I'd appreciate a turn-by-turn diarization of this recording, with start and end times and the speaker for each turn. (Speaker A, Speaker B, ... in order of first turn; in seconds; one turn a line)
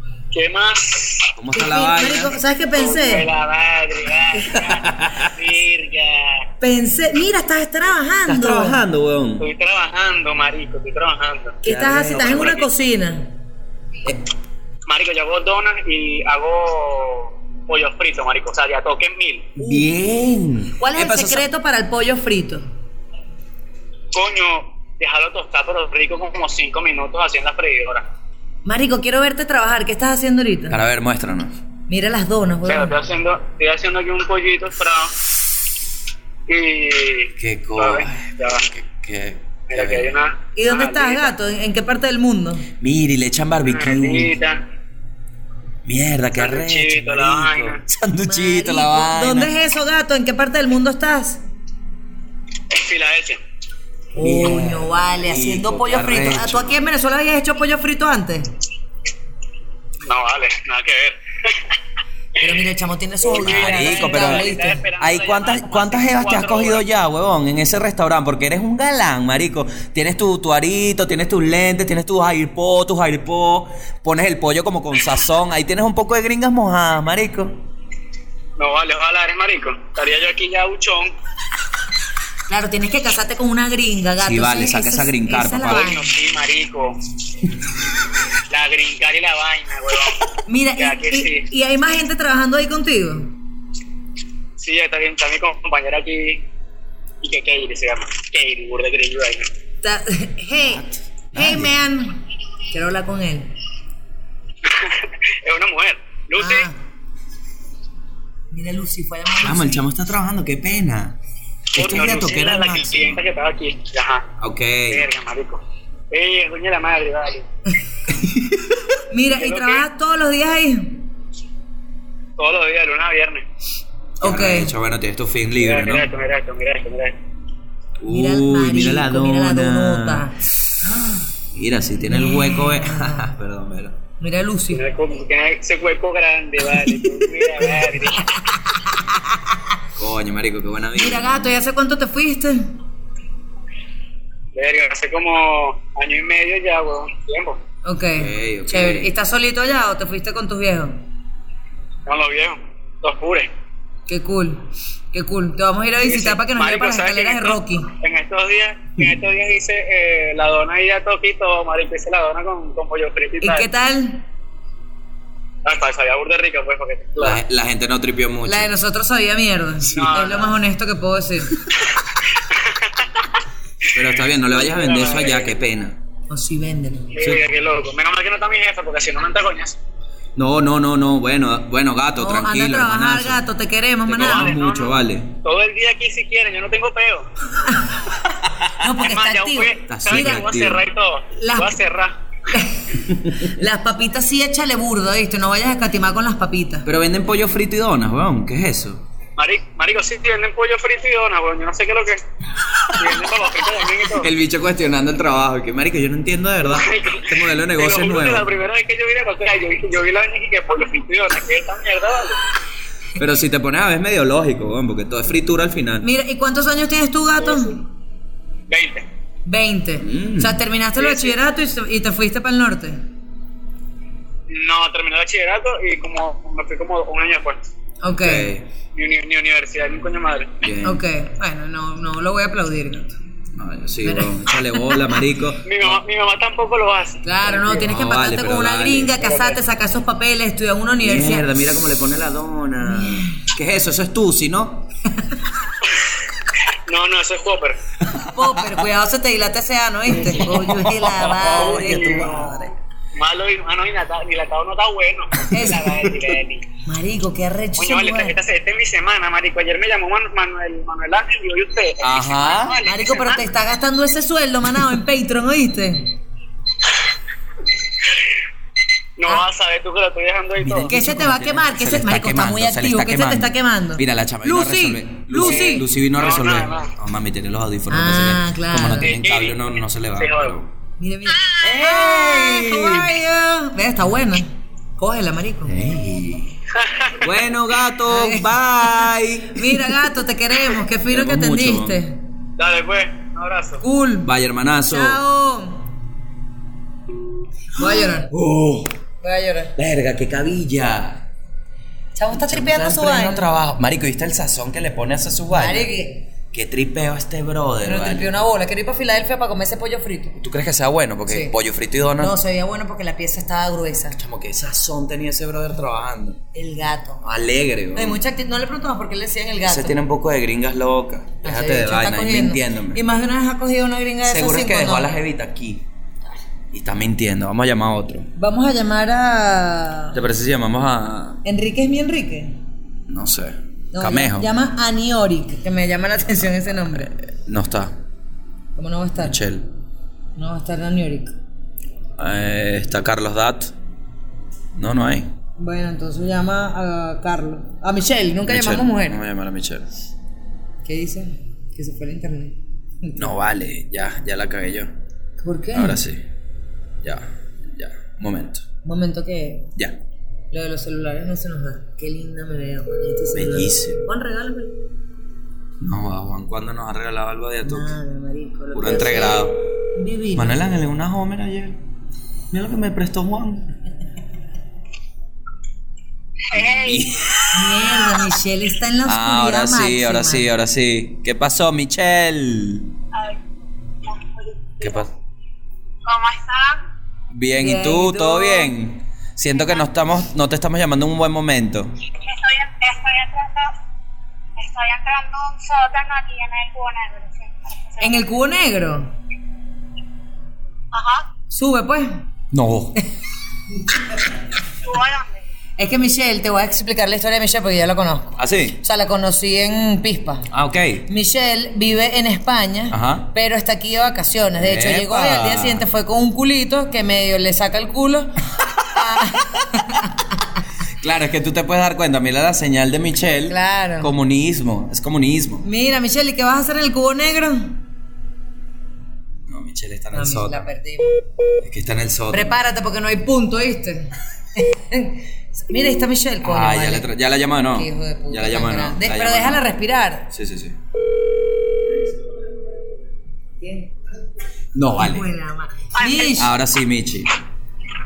Speaker A: 0.3-1.3
Speaker B: 1.4-2.4
Speaker C: 1.5-3.3
Speaker A: 2.7-6.4
Speaker B: 4.4-5.3
Speaker C: 6.6-8.8
Speaker B: 8.2-9.4
Speaker A: 9.4-11.6
Speaker B: 11.6-12.7
Speaker C: 11.6-13.3
Speaker A: 12.2-12.5
Speaker A: 14.9-19.6
Speaker B: 19.6-21.4
Speaker C: 20.8-22.6
Speaker A: 24.1-28.0
Speaker C: 28.6-30.8
Speaker B: 30.7-31.5
Speaker C: 31.9-32.9
Speaker A: 32.6-35.1
Speaker A: 36.5-38.7
Speaker B: 37.4-40.1
Speaker A: 39.7-41.3
Speaker C: 40.5-42.6
Speaker B: 42.8-44.3
Speaker A: 43.6-44.6
Speaker B: 45.8-49.5
Speaker A: 46.4-47.8
Speaker C: 48.2-51.4
Speaker A: 52.7-53.4
Speaker C: 54.1-58.5
Speaker B: 54.2-56.8
Speaker A: 60.0-61.6
Speaker C: 62.4-64.8
Speaker A: 63.2-66.8
Speaker B: 63.4-77.5
Speaker A: 78.6-81.1
Speaker C: 82.5-86.1
Speaker B: 84.2-85.9
Speaker A: 85.7-87.0
Speaker A: 88.5-90.2
Speaker C: 90.5-93.3
Speaker A: 90.8-91.5
Speaker A: 94.6-96.4
Speaker A: 97.2-99.5
Speaker C: 99.8-103.5
Speaker B: 100.7-101.7
Speaker A: 104.6-106.7
Speaker C: 106.4-106.7
Speaker C: 108.5-109.8
Speaker B: 109.4-111.2
Speaker B: 111.7-113.2
Speaker A: 111.7-114.3
Speaker B: 114.4-115.1
Speaker A: 114.9-117.4
Speaker B: 118.1-118.8
Speaker C: 119.1-121.0
Speaker A: 119.3-119.8
Speaker A: 122.4-123.4
Speaker C: 124.2-124.7
Speaker B: 124.2-126.1
Speaker A: 125.6-127.1
Speaker B: 128.0-130.2
Speaker C: 128.1-130.4
Speaker B: 130.8-134.0
Speaker C: 132.1-133.3
Speaker C: 134.2-134.8
Speaker A: 134.7-138.4
Speaker B: 140.0-141.5
Speaker C: 140.9-142.7
Speaker A: 144.5-147.6
Speaker C: 147.8-151.0
Speaker B: 148.1-149.1
Speaker A: 152.1-153.5
Speaker C: 154.1-157.9
Speaker A: 156.0-163.7
Speaker C: 163.4-164.2
Speaker A: 165.6-167.4
Speaker B: 167.2-168.7
Speaker C: 168.5-171.6
Speaker A: 169.9-170.5
Speaker B: 169.9-170.3
Speaker A: 172.5-173.1
Speaker B: 173.9-176.0
Speaker A: 174.5-175.5
Speaker C: 176.3-177.1
Speaker A: 177.1-179.8
Speaker B: 180.3-183.4
Speaker C: 182.2-184.5
Speaker B: 184.1-185.3
Speaker A: 184.2-187.3
Speaker C: 187.6-188.0
Speaker C: 188.8-190.4
Speaker A: 189.0-192.1
Speaker B: 189.9-190.8
Speaker C: 191.3-191.8
Speaker C: 192.5-196.8
Speaker B: 196.8-199.0
Speaker A: 199.4-202.2
Speaker B: 202.6-203.3
Speaker A: 202.9-204.3
Speaker B: 204.1-208.5
Speaker A: 206.7-212.4
Speaker B: 213.2-216.1
Speaker C: 216.0-217.8
Speaker A: 217.4-217.8
Speaker A: 218.7-219.0
Speaker C: 219.5-223.0
Speaker B: 220.0-220.6
Speaker A: 221.0-221.3
Speaker A: 224.5-227.7
Speaker C: 228.0-228.5
Speaker B: 228.1-228.7
Speaker A: 228.9-230.6
Speaker B: 230.6-231.0
Speaker C: 230.8-233.1
Speaker B: 233.5-236.0
Speaker C: 234.0-235.2
Speaker A: 235.6-237.2
Speaker C: 237.2-241.5
Speaker B: 237.4-239.2
Speaker A: 239.2-239.6
Speaker B: 241.0-244.9
Speaker C: 242.8-243.5
Speaker A: 246.9-247.8
Speaker B: 248.1-248.8
Speaker C: 248.2-252.7
Speaker B: 250.1-252.7
Speaker A: 251.5-252.5
Speaker A: 253.2-256.6
Speaker B: 255.4-256.0
Speaker C: 255.5-255.8
Speaker C: 256.8-258.4
Speaker A: 257.8-263.4
Speaker B: 262.0-262.8
Speaker C: 262.9-266.1
Speaker A: 269.2-270.9
Speaker B: 270.6-280.7
Speaker C: 270.9-275.9
Speaker A: 276.1-276.9
Speaker C: 277.9-279.1
Speaker A: 279.0-280.5
Speaker C: 281.0-285.8
Speaker B: 281.6-283.2
Speaker B: 285.7-286.6
Speaker A: 286.8-287.2
Speaker B: 287.2-290.0
Speaker C: 288.1-292.2
Speaker B: 291.1-292.0
Speaker A: 292.6-293.8
Speaker C: 293.8-294.3
Speaker B: 294.2-295.2
Speaker C: 294.9-295.9
Speaker C: 297.7-298.3
Speaker B: 297.8-298.9
Speaker C: 299.2-299.7
Speaker B: 299.8-301.3
Speaker C: 302.1-303.4
Speaker B: 302.3-305.9
Speaker C: 305.5-306.3
Speaker B: 306.5-308.3
Speaker C: 307.8-310.4
Speaker B: 310.4-312.3
Speaker C: 311.3-311.5
Speaker C: 312.2-314.2
Speaker B: 314.1-316.4
Speaker C: 316.5-317.2
Speaker B: 317.2-318.2
Speaker C: 317.9-320.0
Speaker B: 319.6-323.0
Speaker C: 321.4-325.1
Speaker B: 324.2-325.8
Speaker B: 326.7-328.3
Speaker C: 328.4-330.2
Speaker B: 330.1-331.4
Speaker C: 331.4-332.6
Speaker B: 333.1-334.5
Speaker C: 333.9-337.1
Speaker B: 336.6-337.9
Speaker C: 338.8-339.4
Speaker B: 339.2-339.7
Speaker C: 340.4-341.3
Speaker B: 342.2-343.7
Speaker B: 344.7-345.3
Speaker C: 345.6-349.2
Speaker B: 348.4-349.9
Speaker C: 350.8-353.3
Speaker B: 353.1-354.9
Speaker C: 355.4-356.0
Speaker B: 355.7-356.2
Speaker B: 357.0-358.6
Speaker C: 358.8-359.7
Speaker C: 360.5-364.8
Speaker B: 363.3-364.0
Speaker B: 365.8-367.9
Speaker C: 367.6-370.6
Speaker B: 368.7-369.6
Speaker B: 370.3-371.8
Speaker B: 372.5-373.7
Speaker D: 376.5-377.2
Speaker B: 376.5-378.0
Speaker C: 377.5-380.5
Speaker B: 379.0-382.9
Speaker D: 383.1-383.4
Speaker D: 384.0-385.1
Speaker B: 384.8-385.1
Speaker D: 386.0-386.8
Speaker B: 387.3-391.9
Speaker C: 387.6-388.7
Speaker D: 389.5-389.8
Speaker D: 392.2-393.7
Speaker D: 394.6-398.3
Speaker C: 398.0-399.1
Speaker D: 400.9-401.3
Speaker C: 401.5-402.2
Speaker B: 402.5-403.0
Speaker D: 404.8-405.4
Speaker C: 405.8-410.5
Speaker B: 408.4-408.8
Speaker B: 410.5-411.1
Speaker C: 411.1-420.1
Speaker B: 412.9-413.3
Speaker B: 414.6-415.9
Speaker B: 419.1-419.4
Speaker B: 421.0-425.6
Speaker C: 423.5-424.1
Speaker C: 425.6-427.8
Speaker B: 429.4-430.6
Speaker C: 430.1-431.2
Speaker B: 431.6-432.6
Speaker C: 432.3-437.1
Speaker B: 436.4-439.8
Speaker C: 437.7-440.3
Speaker B: 440.3-440.8
Speaker C: 443.6-443.9
Speaker B: 444.7-445.3
Speaker C: 445.0-446.5
Speaker D: 445.9-446.3
Speaker B: 446.2-447.3